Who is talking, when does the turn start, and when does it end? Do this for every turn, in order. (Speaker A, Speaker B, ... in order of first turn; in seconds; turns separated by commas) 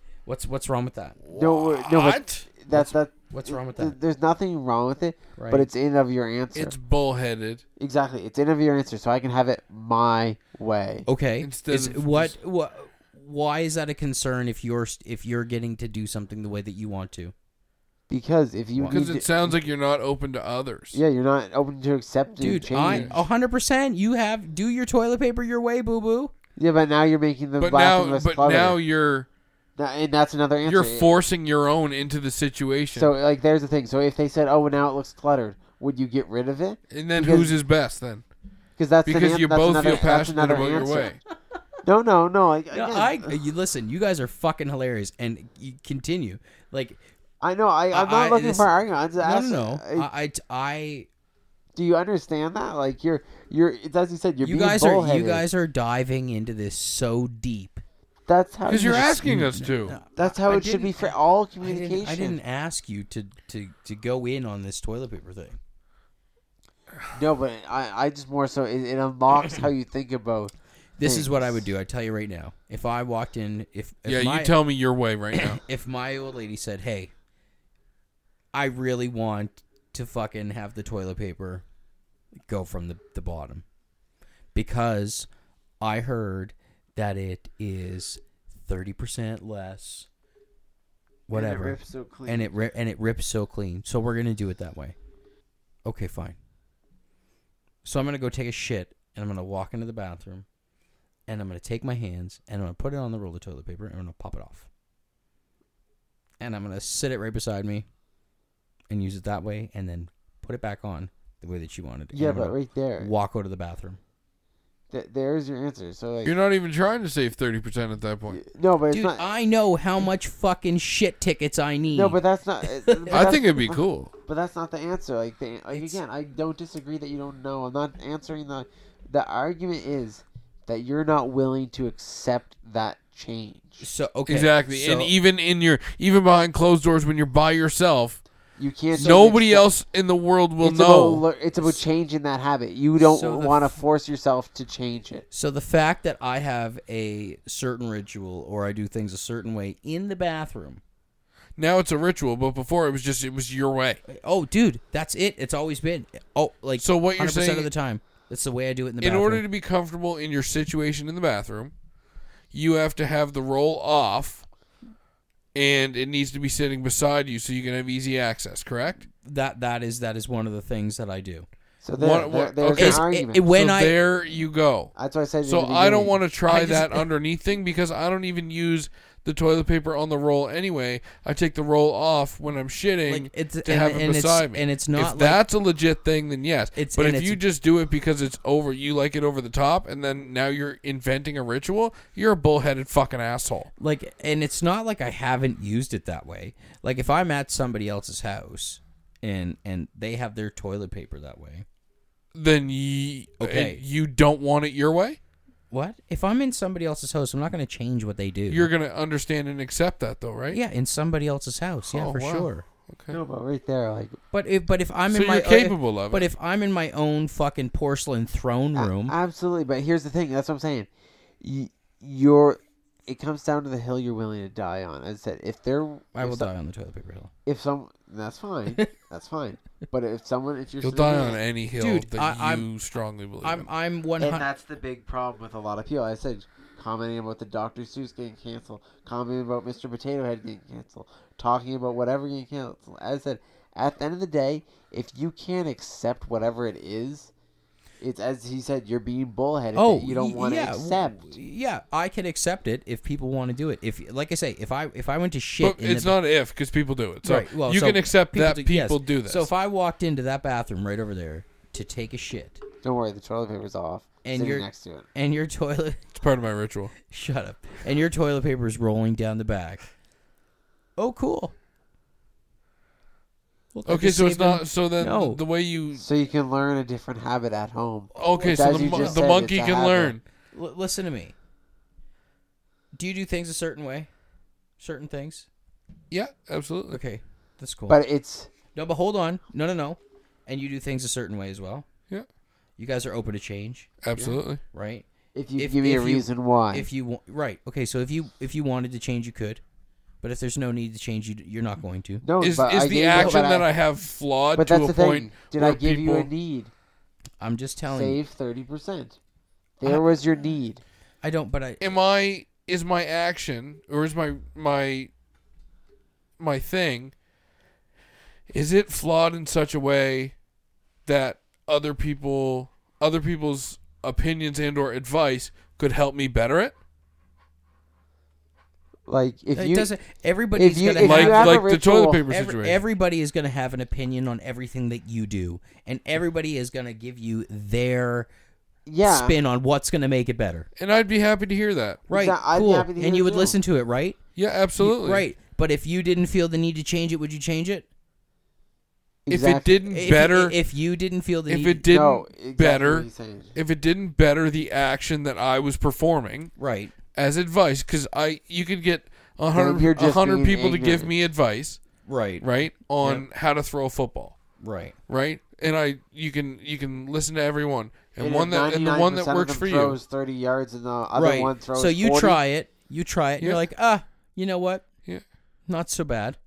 Speaker A: 0.2-1.2, Speaker B: 1.2-2.5, Speaker C: 1.3-6.7, Speaker A: 2.7-4.0, Speaker A: 5.3-5.7, Speaker B: 6.5-7.6, Speaker C: 7.8-11.1, Speaker A: 11.1-17.3, Speaker B: 11.4-12.3, Speaker C: 18.1-19.6, Speaker A: 18.8-19.0, Speaker B: 18.9-21.0, Speaker C: 20.9-23.2, Speaker A: 22.4-26.3, Speaker B: 22.8-23.1, Speaker C: 26.6-28.8, Speaker B: 27.6-29.3, Speaker C: 29.8-31.1, Speaker B: 30.6-33.1, Speaker C: 32.9-37.5, Speaker B: 36.9-38.2, Speaker C: 38.8-41.1, Speaker B: 39.0-41.2, Speaker C: 41.8-43.4, Speaker A: 42.7-47.0, Speaker C: 47.4-50.1, Speaker A: 47.9-51.1, Speaker C: 51.7-55.5, Speaker A: 54.4-57.8, Speaker C: 58.3-59.2, Speaker B: 58.7-59.9, Speaker A: 58.8-65.6, Speaker C: 60.1-62.4, Speaker C: 67.1-71.6, Speaker A: 71.0-74.5, Speaker B: 74.0-75.6, Speaker A: 75.3-77.1, Speaker A: 78.5-81.6, Speaker A: 82.5-83.6, Speaker A: 84.5-85.3, Speaker A: 85.8-90.1, Speaker A: 91.3-95.0, Speaker C: 91.3-92.5, Speaker A: 95.8-96.4, Speaker A: 97.8-100.5, Speaker A: 101.3-104.7, Speaker A: 106.4-107.9, Speaker A: 108.9-114.0, Speaker C: 112.1-113.1, Speaker C: 114.9-116.3, Speaker B: 116.2-118.4, Speaker C: 118.3-119.2, Speaker A: 118.9-122.2, Speaker C: 121.9-133.8, Speaker A: 122.8-123.3, Speaker B: 123.1-124.1, Speaker A: 125.7-126.0, Speaker A: 133.8-135.1, Speaker B: 134.3-138.2, Speaker C: 138.6-139.7, Speaker A: 138.9-139.3, Speaker B: 138.9-141.2, Speaker C: 140.6-145.2, Speaker A: 143.0-143.8, Speaker A: 145.3-150.8, Speaker B: 151.6-154.0, Speaker A: 154.1-159.4, Speaker B: 156.8-157.7, Speaker B: 159.0-161.7, Speaker B: 162.5-164.4, Speaker B: 165.5-169.1, Speaker A: 169.1-171.5, Speaker C: 171.8-173.4, Speaker B: 172.0-174.9, Speaker A: 172.7-173.9, Speaker C: 174.9-176.2, Speaker B: 175.4-193.7, Speaker A: 176.5-177.1, Speaker A: 183.1-185.4, Speaker A: 186.8-187.4, Speaker A: 193.8-201.6, Speaker B: 202.3-205.2, Speaker A: 203.4-203.8, Speaker A: 205.7-208.7, Speaker B: 208.5-210.6, Speaker A: 210.5-212.6, Speaker B: 211.9-213.2, Speaker C: 213.1-214.2, Speaker A: 214.3-219.2, Speaker B: 215.1-216.3, Speaker C: 218.8-220.9, Speaker C: 221.4-226.5, Speaker A: 226.1-227.3, Speaker C: 227.4-231.4, Speaker B: 230.8-233.7, Speaker A: 231.8-232.7, Speaker A: 233.4-234.4, Speaker C: 234.2-247.3, Speaker C: 248.0-251.3, Speaker A: 249.7-256.2, Speaker B: 255.6-259.5, Speaker A: 257.2-262.6, Speaker C: 262.8-265.1, Speaker A: 264.2-266.1, Speaker B: 266.1-266.9, Speaker A: 267.0-269.9, Speaker A: 271.0-271.5, Speaker A: 273.7-275.4, Speaker B: 273.9-276.0, Speaker C: 275.9-280.1, Speaker B: 278.1-280.2, Speaker A: 278.9-279.2, Speaker A: 280.5-281.4, Speaker A: 282.9-284.1, Speaker A: 284.8-285.5, Speaker B: 286.1-287.0, Speaker A: 286.9-288.0, Speaker C: 287.9-288.5, Speaker A: 288.7-291.9, Speaker A: 292.8-293.9, Speaker B: 294.0-294.6, Speaker A: 294.7-299.6, Speaker C: 295.3-296.9, Speaker A: 300.2-302.2, Speaker C: 302.2-303.7, Speaker B: 302.4-306.3, Speaker A: 303.1-303.4, Speaker C: 304.5-306.7, Speaker A: 307.4-308.2, Speaker C: 307.9-309.2, Speaker C: 309.8-310.8, Speaker A: 311.2-311.9, Speaker B: 311.8-315.1, Speaker B: 316.4-317.1, Speaker B: 318.5-320.3, Speaker B: 321.1-326.7, Speaker C: 329.1-329.9, Speaker A: 329.5-331.6, Speaker C: 330.6-332.2, Speaker B: 331.0-332.8, Speaker A: 332.3-338.3, Speaker C: 338.9-339.4, Speaker A: 339.0-340.7, Speaker B: 340.8-342.0, Speaker C: 342.1-343.6, Speaker A: 342.1-344.2, Speaker B: 344.4-345.2, Speaker A: 344.8-347.9, Speaker C: 349.2-349.8, Speaker B: 349.3-350.6, Speaker A: 349.9-351.8, Speaker B: 351.5-356.5, Speaker C: 351.9-353.5, Speaker A: 356.6-356.9, Speaker B: 357.1-361.8, Speaker C: 359.5-361.1, Speaker A: 362.1-362.4, Speaker B: 362.4-364.4, Speaker A: 364.6-365.0, Speaker B: 365.1-370.0, Speaker C: 368.2-372.4, Speaker A: 371.1-374.9, Speaker A: 375.6-376.4